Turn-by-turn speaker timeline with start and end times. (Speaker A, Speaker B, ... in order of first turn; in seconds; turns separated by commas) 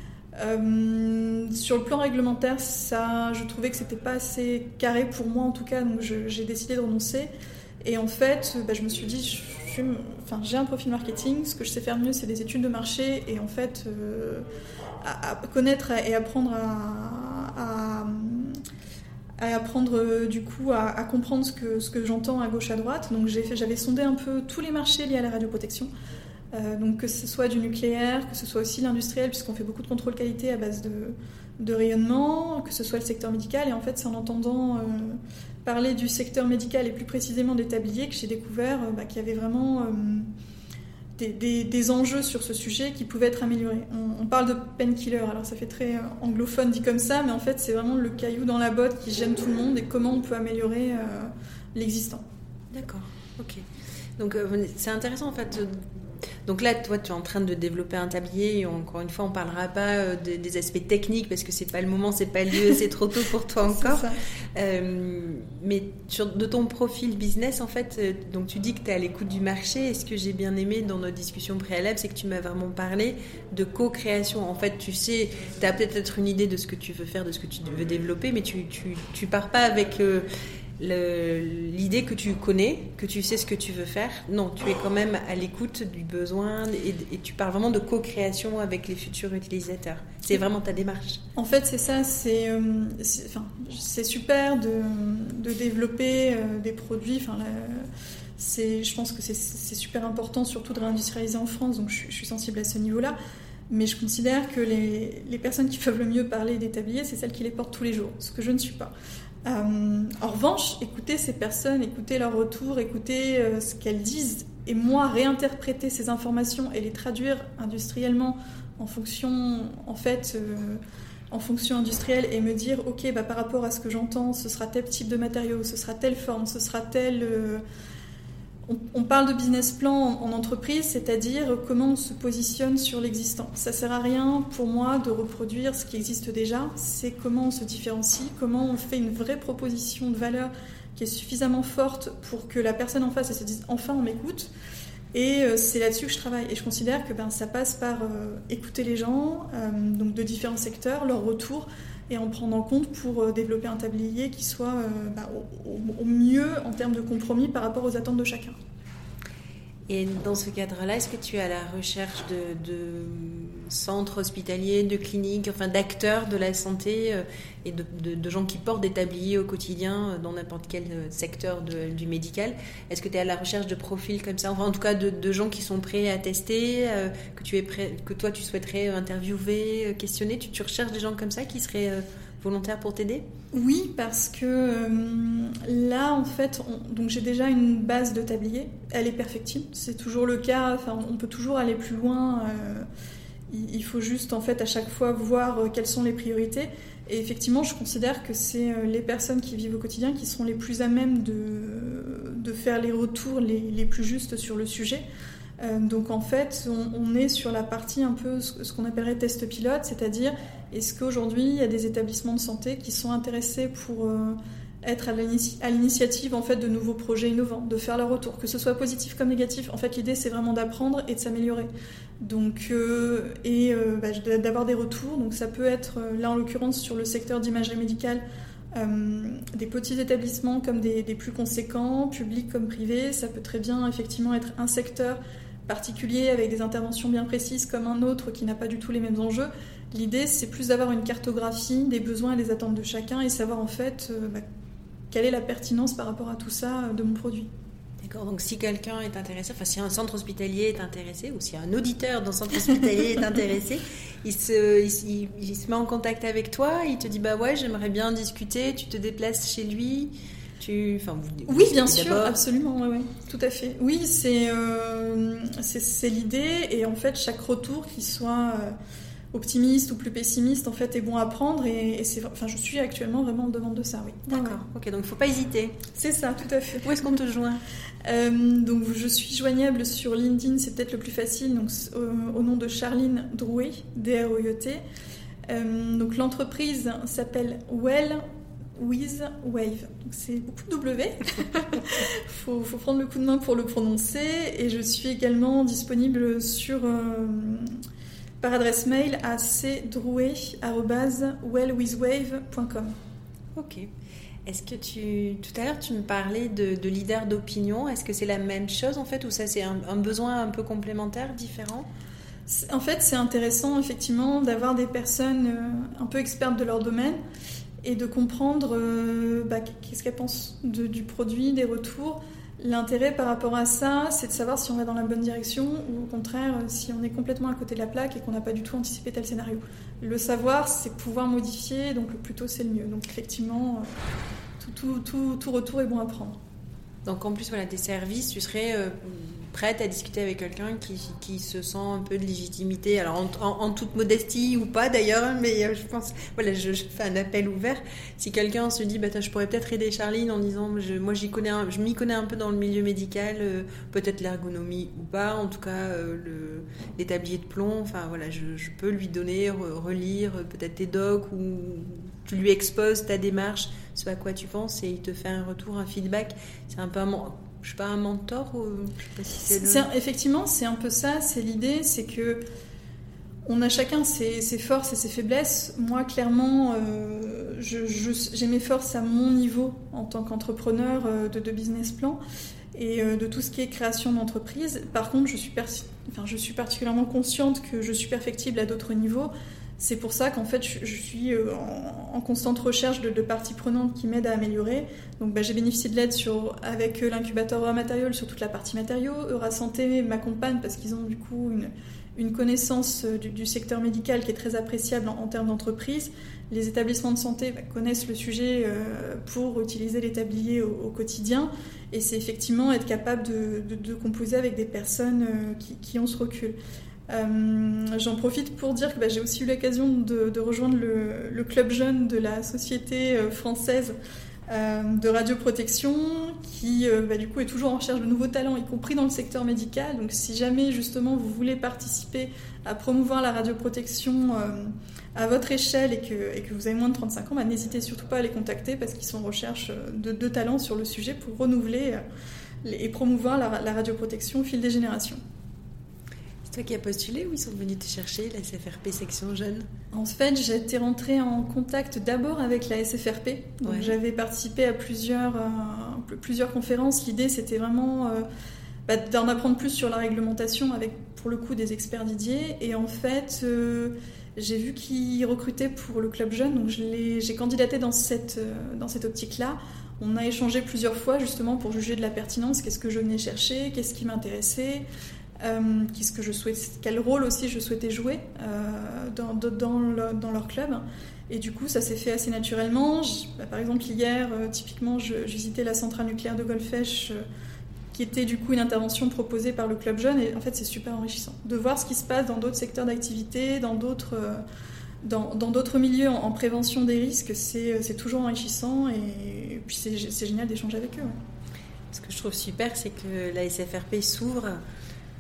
Speaker A: 0.4-7.3, Speaker A: 7.8-14.5, Speaker A: 15.0-18.6, Speaker A: 19.4-25.9, Speaker A: 26.5-40.3, Speaker A: 41.2-52.2, Speaker B: 52.7-53.6, Speaker B: 54.2-55.9, Speaker B: 56.5-80.3, Speaker A: 63.6-64.2, Speaker B: 80.8-91.2, Speaker A: 91.4-103.2, Speaker A: 103.7-108.9, Speaker A: 109.5-127.6, Speaker A: 128.7-144.5, Speaker A: 145.1-158.6, Speaker B: 159.9-183.2, Speaker A: 183.5-192.9, Speaker A: 193.5-205.0, Speaker A: 205.6-221.7, Speaker A: 222.2-228.2, Speaker A: 228.7-244.4, Speaker A: 245.1-247.5, Speaker B: 248.0-262.4, Speaker A: 261.5-268.8, Speaker A: 269.3-274.6, Speaker B: 274.3-275.8, Speaker A: 275.9-276.9, Speaker B: 276.8-277.6, Speaker A: 278.1-284.8, Speaker A: 285.5-288.2, Speaker A: 288.8-297.7, Speaker A: 298.4-302.9, Speaker B: 303.6-303.9, Speaker B: 304.5-311.9, Speaker A: 312.5-317.2, Speaker A: 317.8-333.9, Speaker A: 334.6-336.4, Speaker B: 337.1-369.9, Speaker A: 369.5-372.4, Speaker A: 373.5-382.2, Speaker A: 382.8-416.6, Speaker A: 417.1-423.9, Speaker A: 424.5-442.0, Speaker A: 442.6-445.2, Speaker B: 446.4-449.7, Speaker A: 449.9-458.3, Speaker B: 453.6-454.0, Speaker A: 458.9-474.9, Speaker A: 475.4-487.2, Speaker A: 487.9-494.4, Speaker A: 495.0-501.2, Speaker B: 501.9-504.6